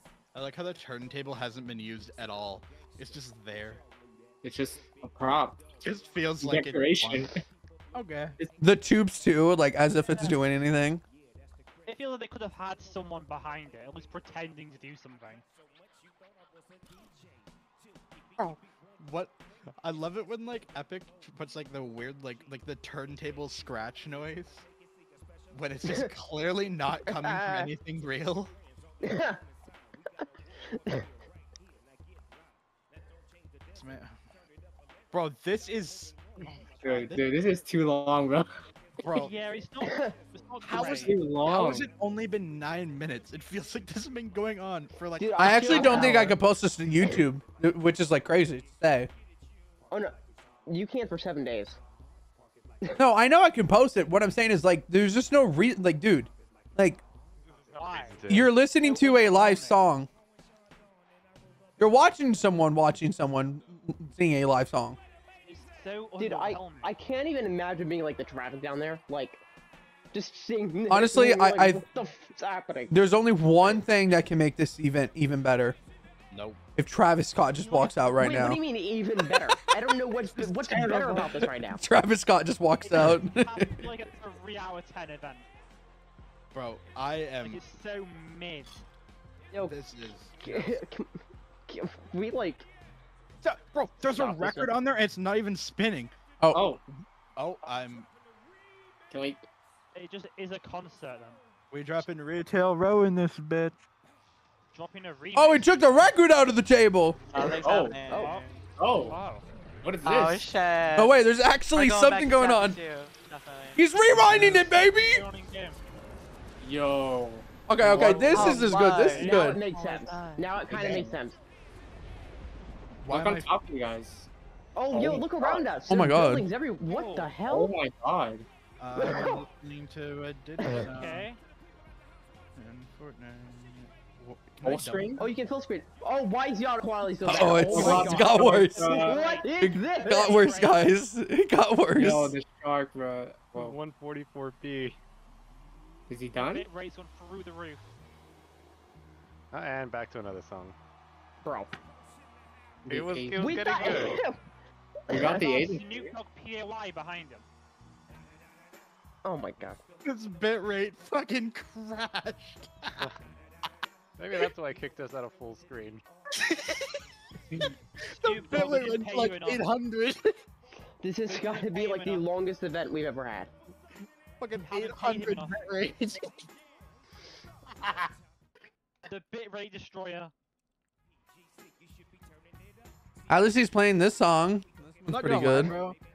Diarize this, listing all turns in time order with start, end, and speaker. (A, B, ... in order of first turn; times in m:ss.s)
0:00.3-0:03.8 A
0:04.4-0:05.8 B
0:05.8-0:07.3 A
0:06.4-0:07.4 B
0:07.9-0:08.3 A
0:08.6-0:11.0 C
0:10.1-0:10.4 D
0:11.8-0:15.4 D
0:18.4-0:24.6 A
0:25.5-0:28.5 A
0:25.8-0:26.1 E
0:27.0-0:27.7 E
0:29.0-0:29.4 E
0:30.7-0:31.0 E
0:33.7-0:34.2 A
0:35.1-0:37.3 A
0:36.8-0:38.5 B
0:39.0-0:39.3 A
0:39.1-0:41.1 D
0:39.8-0:40.1 E
0:40.6-0:46.3 A
0:40.8-0:41.9 B
0:45.2-0:46.4 E
0:45.4-0:49.1 C
0:50.7-0:51.8 E
0:53.0-0:57.0 C
0:57.7-0:58.5 F
0:57.7-0:59.8 D
0:58.3-1:00.1 C
1:01.8-1:05.0 C
1:05.4-1:06.9 D
1:06.2-1:09.4 E
1:10.1-1:13.0 E
1:10.9-1:11.8 C
1:12.9-1:15.8 C
1:16.3-1:16.6 A
1:16.8-1:18.6 C
1:17.6-1:17.9 D
1:18.2-1:21.8 E
1:20.3-1:23.9 C
1:20.7-1:21.3 B
1:22.8-1:25.5 D
1:26.5-1:27.6 A
1:27.4-1:28.8 D
1:29.5-1:29.8 E
1:29.6-1:30.8 A
1:30.4-1:31.1 E
1:31.7-1:32.6 E
1:33.4-1:36.1 A
1:34.0-1:34.7 E
1:36.5-1:36.8 B
1:37.4-1:38.1 A
1:39.1-1:39.4 B
1:39.9-1:41.4 D
1:41.7-1:43.8 A
1:44.7-1:46.1 D
1:45.3-1:47.2 C
1:47.3-1:48.4 G
1:47.6-1:48.0 B
1:48.1-1:48.4 E
1:48.1-1:49.4 D
1:48.8-1:49.2 B
1:49.8-1:50.5 B
1:50.0-1:51.1 G
1:50.9-1:52.8 C
1:51.7-1:53.8 G
1:53.8-1:55.2 C
1:54.2-1:54.6 B
1:54.6-1:55.8 D
1:56.6-1:58.6 B
1:57.7-1:59.6 C
1:57.9-2:01.4 E
1:58.3-2:00.6 G
1:59.1-1:59.4 D
2:00.7-2:01.2 B
2:03.0-2:03.5 A
2:03.1-2:04.3 B
2:04.8-2:07.7 E
2:04.9-2:05.7 B
2:05.9-2:06.5 C
2:06.8-2:07.3 D
2:07.4-2:08.5 B
2:08.8-2:11.3 A
2:08.9-2:09.5 E
2:10.8-2:11.4 D
2:12.6-2:15.3 A
2:14.6-2:15.2 B
2:15.2-2:20.3 E
2:17.2-2:19.4 B
2:17.3-2:18.8 C
2:17.3-2:18.6 A
2:18.7-2:20.9 D
2:19.6-2:22.4 C
2:21.9-2:23.8 B
2:23.5-2:25.0 F
2:26.1-2:26.7 B
2:26.4-2:27.9 D
2:29.5-2:30.8 F
2:31.4-2:31.7 E
2:32.8-2:34.2 B
2:32.9-2:34.2 F
2:33.4-2:34.4 E
2:35.1-2:36.1 B
2:35.1-2:35.6 E
2:35.2-2:37.4 D
2:39.2-2:39.8 E
2:40.0-2:43.1 A
2:44.2-2:46.0 F
2:46.3-2:47.0 A
2:47.6-2:50.4 A
2:48.1-2:49.6 D
2:51.0-2:53.5 E
2:51.3-2:52.2 D
2:54.4-2:56.3 A
2:54.6-2:55.6 D
2:59.0-3:00.3 D
3:03.3-3:05.7 C
3:05.1-3:06.0 A
3:05.6-3:05.9 B